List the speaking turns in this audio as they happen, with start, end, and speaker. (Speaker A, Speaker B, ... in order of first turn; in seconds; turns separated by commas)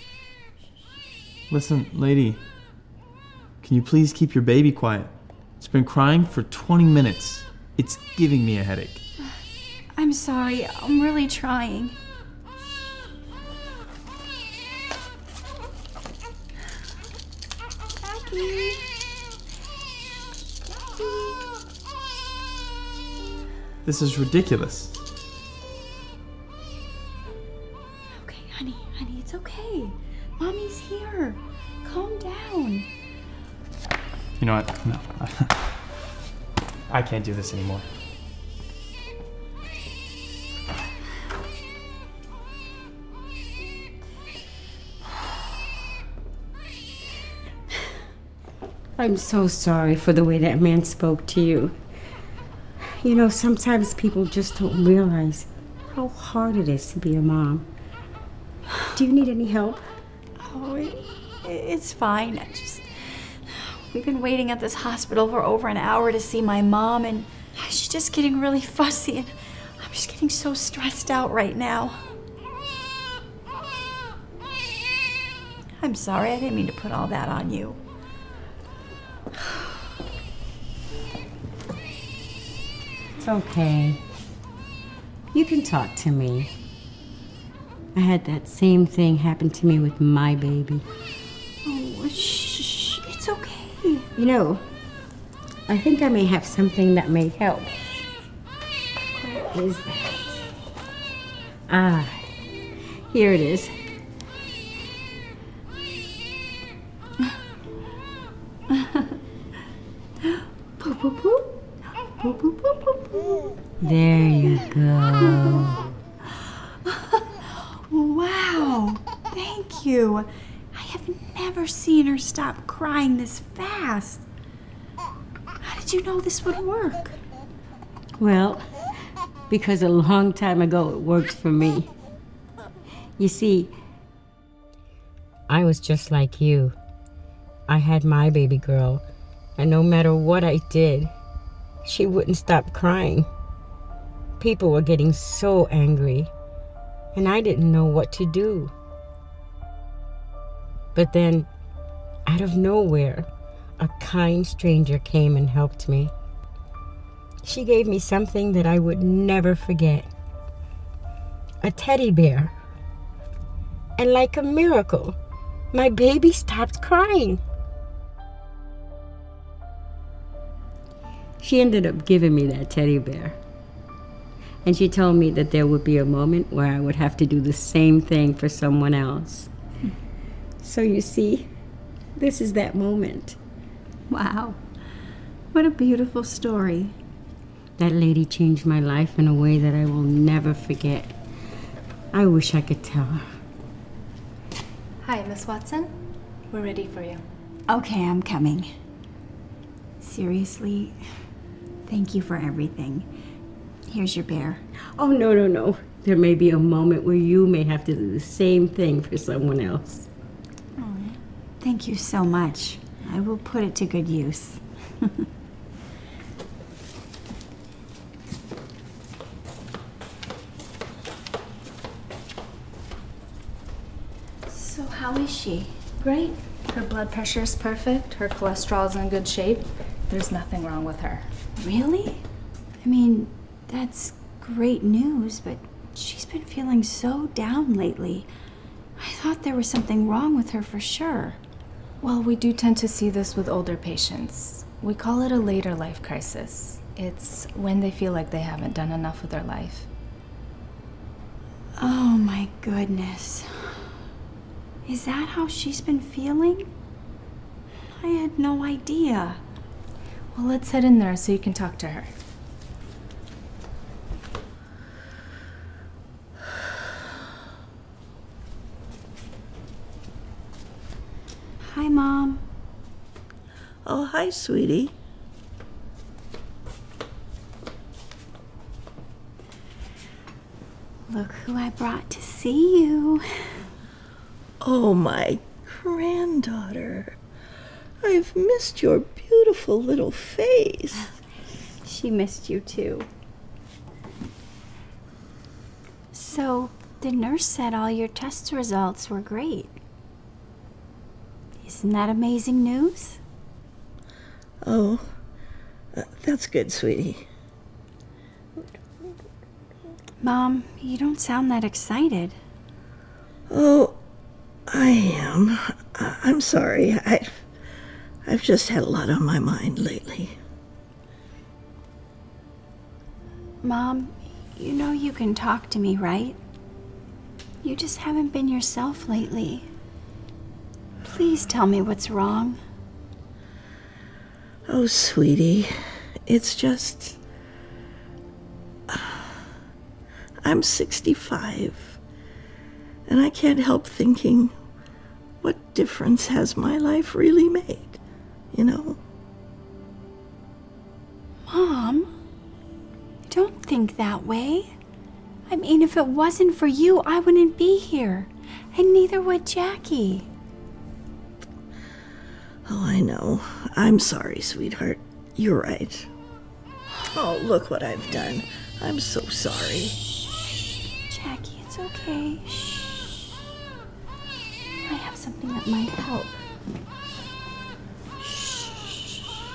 Speaker A: 1.5-2.4, Speaker A: 3.6-9.0, Speaker B: 9.9-12.0, Speaker B: 18.0-18.9, Speaker B: 20.7-21.4, Speaker A: 23.8-25.0, Speaker B: 28.1-32.9, Speaker A: 34.4-35.6, Speaker A: 36.9-37.9, Speaker C: 49.0-51.8, Speaker C: 52.8-57.6, Speaker C: 58.9-59.8, Speaker B: 60.4-72.0, Speaker B: 75.8-77.8, Speaker C: 83.2-84.0, Speaker C: 85.3-86.5, Speaker C: 87.9-90.8, Speaker B: 91.6-94.1, Speaker C: 94.2-94.6, Speaker C: 95.7-97.8, Speaker C: 99.2-100.4, Speaker C: 101.7-102.3, Speaker C: 103.1-103.8, Speaker B: 110.3-113.6, Speaker C: 113.8-115.8, Speaker B: 116.8-124.2, Speaker B: 125.6-127.2, Speaker C: 128.2-128.6, Speaker C: 129.5-131.9, Speaker C: 133.2-133.7, Speaker C: 135.5-136.8, Speaker C: 137.7-139.0, Speaker C: 139.6-141.1, Speaker C: 141.8-143.3, Speaker C: 144.4-146.3, Speaker C: 147.1-148.7, Speaker C: 150.9-151.5, Speaker C: 152.2-156.1, Speaker C: 157.4-160.1, Speaker C: 161.6-162.5, Speaker C: 164.0-165.2, Speaker C: 165.7-167.4, Speaker C: 171.4-173.4, Speaker C: 174.6-179.5, Speaker C: 180.6-181.5, Speaker C: 182.2-183.4, Speaker B: 184.1-184.6, Speaker B: 185.5-186.9, Speaker C: 187.8-191.2, Speaker C: 192.1-193.3, Speaker D: 195.0-195.9, Speaker D: 196.5-197.2, Speaker B: 197.7-198.7, Speaker B: 200.0-201.0, Speaker B: 201.9-203.1, Speaker B: 203.9-204.6, Speaker C: 205.0-210.1, Speaker B: 210.8-215.1, Speaker B: 224.5-225.8, Speaker D: 226.0-231.3, Speaker B: 231.6-232.2, Speaker B: 232.8-238.3, Speaker B: 239.0-241.4, Speaker D: 242.0-249.9, Speaker B: 251.8-253.9, Speaker B: 254.8-256.7, Speaker B: 257.9-259.4, Speaker D: 260.3-262.1, Speaker B: 271.6-272.4, Speaker E: 273.9-274.9, Speaker B: 281.1-283.2, Speaker E: 284.6-287.2, Speaker E: 288.0-291.1, Speaker B: 291.8-293.1, Speaker B: 296.1-299.8, Speaker B: 301.6-303.2, Speaker E: 304.6-305.1, Speaker E: 305.9-307.2, Speaker B: 310.2-312.4, Speaker E: 313.5-314.0, Speaker E: 314.7-317.4, Speaker E: 318.2-320.4, Speaker B: 323.6-326.4, Speaker B: 327.6-329.7, Speaker B: 331.0-332.6, Speaker E: 334.7-335.7, Speaker E: 336.3-337.2, Speaker E: 338.9-339.2, Speaker E: 340.4-342.0, Speaker E: 343.1-344.5, Speaker E: 345.4-348.0, Speaker E: 348.5-349.0, Speaker B: 351.5-352.1, Speaker B: 353.2-354.7, Speaker B: 355.5-360.3, Speaker E: 362.7-366.1, Speaker E: 367.1-370.0, Speaker B: 371.1-373.4, Speaker B: 374.8-376.4, Speaker B: 378.2-379.2